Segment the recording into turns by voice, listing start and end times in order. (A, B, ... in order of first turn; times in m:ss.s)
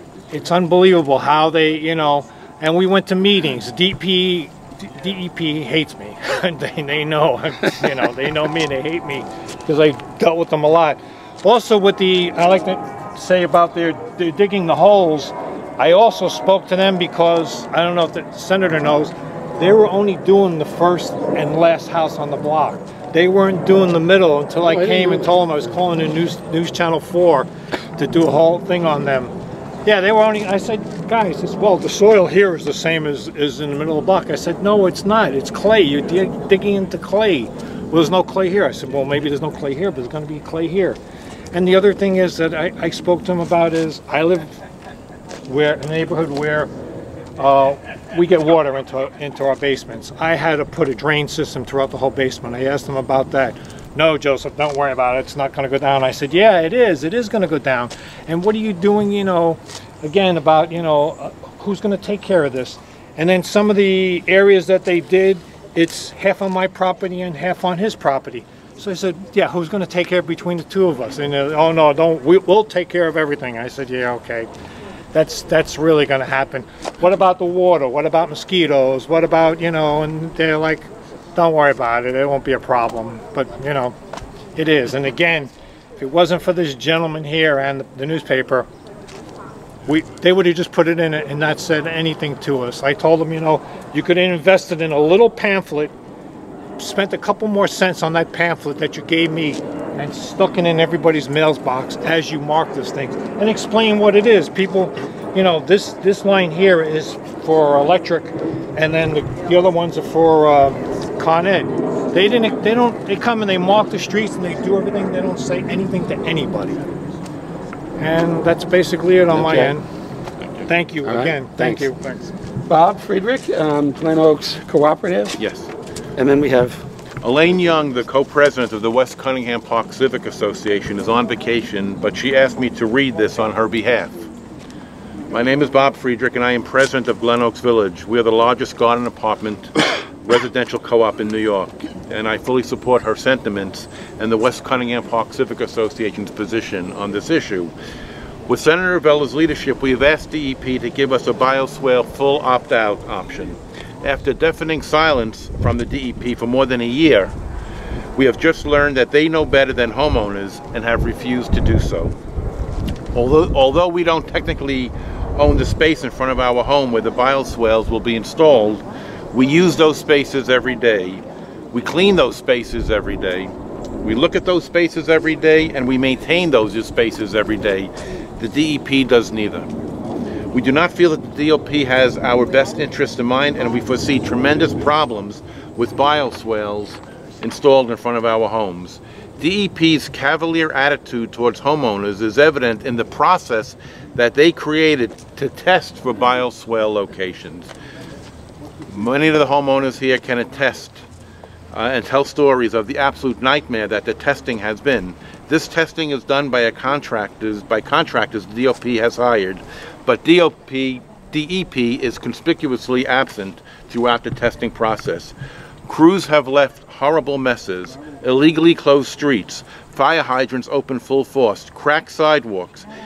0:00.3-0:29.3 A
0:24.6-0:25.3 B
0:29.8-0:41.0 A
0:41.5-0:44.6 A
0:45.4-0:46.7 A
0:47.4-1:14.5 A
1:15.1-1:24.0 A
1:24.6-1:28.7 A
1:29.9-1:35.9 A
1:36.8-1:56.8 A
1:58.0-1:59.8 A
1:59.3-1:59.7 B
2:00.7-2:02.3 A
2:01.0-2:01.9 B
2:02.7-2:05.4 B
2:05.4-2:05.7 C
2:06.2-2:06.8 B
2:07.2-2:14.2 C
2:15.3-2:27.7 C
2:28.5-2:37.3 C
2:38.2-2:42.1 C
2:43.1-2:59.7 C
3:00.5-3:17.7 C
3:18.9-3:21.0 C
3:21.7-3:35.3 C
3:35.9-3:42.9 C